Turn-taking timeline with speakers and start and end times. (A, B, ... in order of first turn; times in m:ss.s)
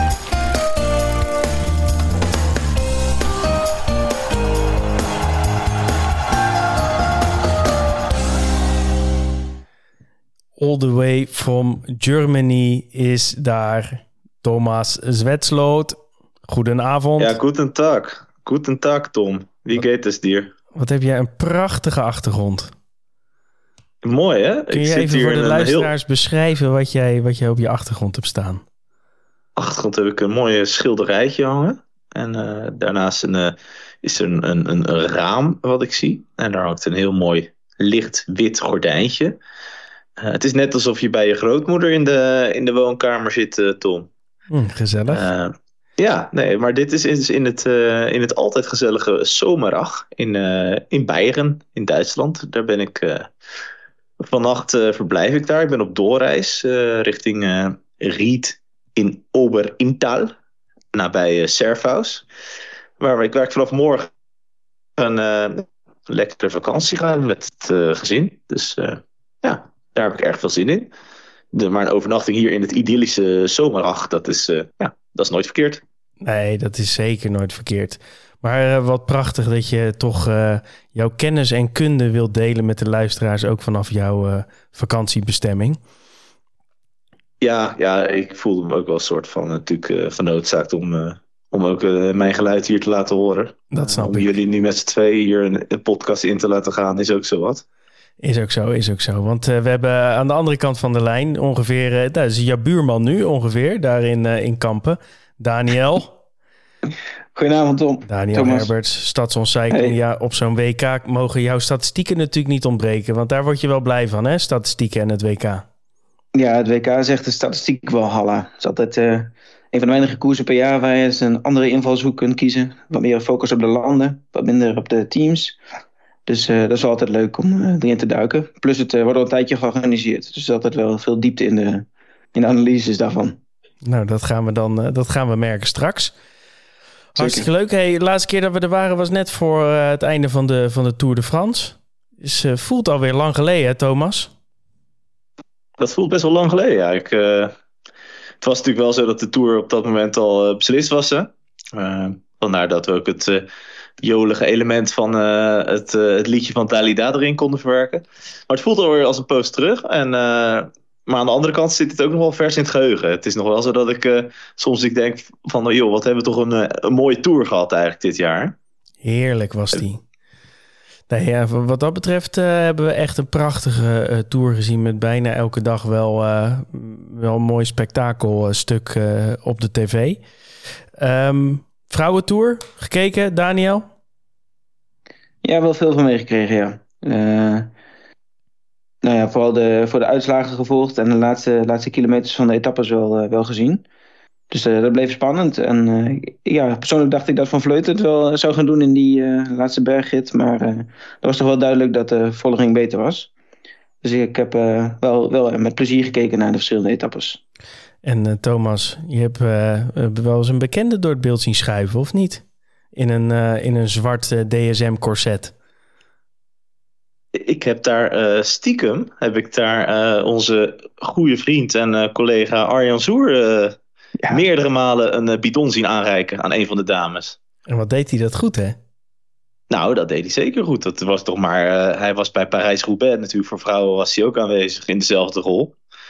0:10.6-0:17.4 A
0:17.2-0:20.5 B
0:20.7-0:22.7 A
0:24.0-0:25.9 B
0:24.7-0:28.6 A
0:29.6-0:39.4 B
0:40.2-0:44.1 B
0:44.5-0:45.3 A
0:45.1-0:53.3 B
0:54.2-1:00.3 B
1:00.9-1:02.3 B
1:03.0-1:04.1 B
1:05.0-1:10.9 B
1:11.5-1:15.8 B
1:16.2-1:25.8 A
1:27.4-1:37.6 B
1:33.7-1:34.3 A
1:38.2-1:46.2 A
1:47.4-1:48.7 C
1:48.1-1:55.7 A
1:49.7-1:50.0 C
1:56.4-2:05.6 C
2:06.3-2:13.4 C
2:13.8-2:16.1 A
2:17.2-2:24.3 A
2:17.2-2:17.5 C
2:25.8-2:27.5 B
2:28.4-2:33.5 B
2:34.0-2:48.6 B
2:49.0-2:50.0 A
2:51.1-3:00.2 A
3:01.0-3:03.9 A
3:05.4-3:07.7 C
3:09.0-3:13.8 C
3:14.5-3:23.3 C
3:24.0-3:27.4 C
3:28.0-3:32.4 A
3:33.0-3:35.5 A
3:37.3-3:43.8 B
3:44.3-3:47.4 B
3:47.7-3:48.8 A
3:49.7-3:55.8 B